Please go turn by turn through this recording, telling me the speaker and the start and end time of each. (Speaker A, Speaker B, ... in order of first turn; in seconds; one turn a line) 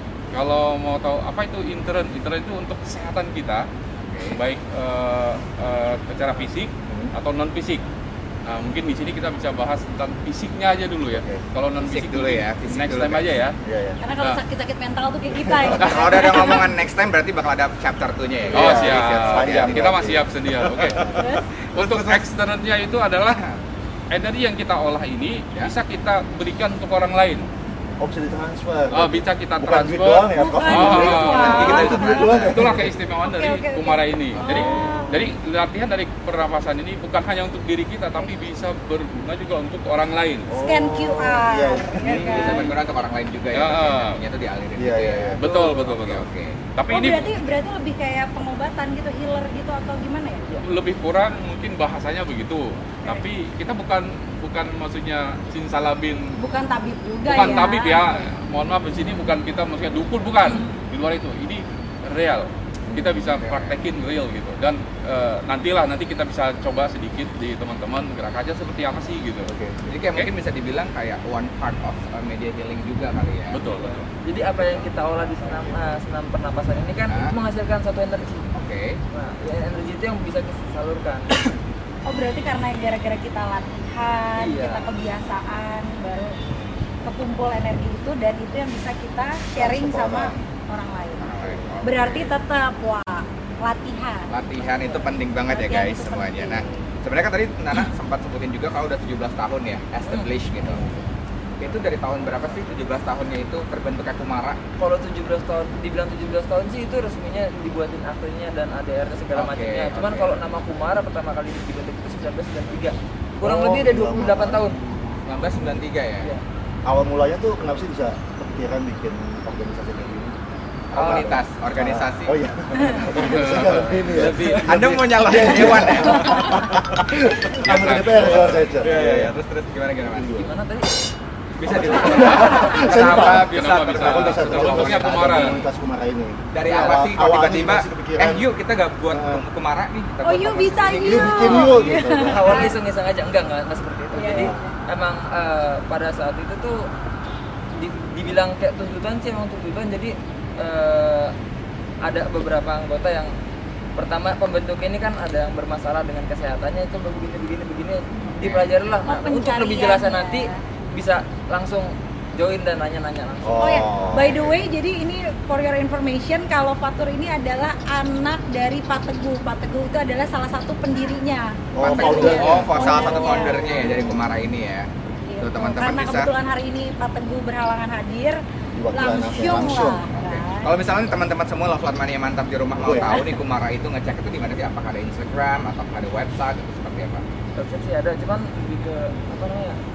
Speaker A: 0.3-3.7
Speaker B: 4.1-4.4
Speaker A: 4.3-7.8
Speaker C: 6.9-7.1
Speaker A: 8.4-13.5
Speaker C: 11.1-11.4
Speaker B: 11.8-13.3
Speaker C: 13.6-14.0
Speaker D: 14.0-16.7
Speaker C: 15.4-15.9
Speaker B: 15.8-19.9
Speaker C: 18.5-21.3
Speaker A: 18.5-21.0
Speaker D: 21.1-21.5
Speaker A: 21.7-23.4
Speaker B: 21.7-22.2
Speaker A: 24.1-27.4
Speaker C: 28.0-32.9
Speaker A: 28.9-40.5
Speaker D: 30.4-32.4
Speaker B: 30.9-32.7
Speaker D: 33.2-35.3
Speaker B: 34.4-34.6
Speaker C: 34.8-35.1
Speaker C: 40.5-42.5
Speaker D: 40.6-42.6
Speaker B: 42.1-46.5
Speaker A: 43.5-44.2
Speaker C: 44.8-45.4
Speaker A: 45.4-47.3
Speaker D: 46.9-50.4
Speaker A: 50.6-56.3
Speaker D: 56.4-58.2
Speaker A: 57.2-69.5
Speaker B: 63.3-63.8
Speaker C: 69.5-69.8
Speaker B: 69.9-73.6
Speaker A: 73.5-74.0
Speaker E: 74.2-78.5
Speaker B: 74.6-74.8
Speaker B: 78.5-79.0
Speaker E: 79.1-81.3
Speaker D: 82.1-86.3
Speaker E: 84.4-84.9
Speaker D: 87.0-91.3
Speaker C: 89.6-90.3
Speaker B: 91.2-92.3
Speaker D: 91.8-96.7
Speaker B: 94.3-100.9
Speaker E: 100.0-100.3
Speaker B: 101.6-104.6
Speaker E: 104.8-114.8
Speaker B: 109.3-110.3
Speaker C: 113.4-114.7
Speaker B: 115.2-116.3
Speaker C: 116.8-120.3
Speaker C: 120.9-129.3
Speaker B: 120.9-122.3
Speaker A: 123.1-124.3
Speaker B: 124.1-126.6
Speaker A: 127.5-128.7
Speaker B: 128.1-130.3
Speaker C: 130.1-130.5
Speaker E: 130.3-131.1
Speaker B: 131.6-135.6
Speaker C: 131.7-138.4
Speaker E: 132.2-132.6
Speaker A: 132.8-135.6
Speaker B: 136.5-141.7
Speaker C: 139.1-139.4
Speaker D: 140.2-142.7
Speaker C: 141.0-142.7
Speaker E: 142.2-146.9
Speaker D: 144.1-144.7
Speaker C: 144.3-144.6
Speaker E: 147.7-151.3
Speaker E: 152.0-153.3
Speaker E: 153.9-164.1
Speaker B: 158.2-158.7
Speaker D: 159.1-160.6
Speaker C: 163.4-164.5
Speaker D: 163.6-174.1
Speaker C: 171.7-174.0
Speaker B: 171.8-174.9
Speaker D: 175.3-178.4
Speaker B: 175.4-176.3
Speaker C: 178.7-180.0
Speaker D: 178.9-180.7
Speaker B: 180.1-187.2
Speaker C: 182.8-183.1
Speaker D: 182.9-183.3
Speaker E: 187.6-189.8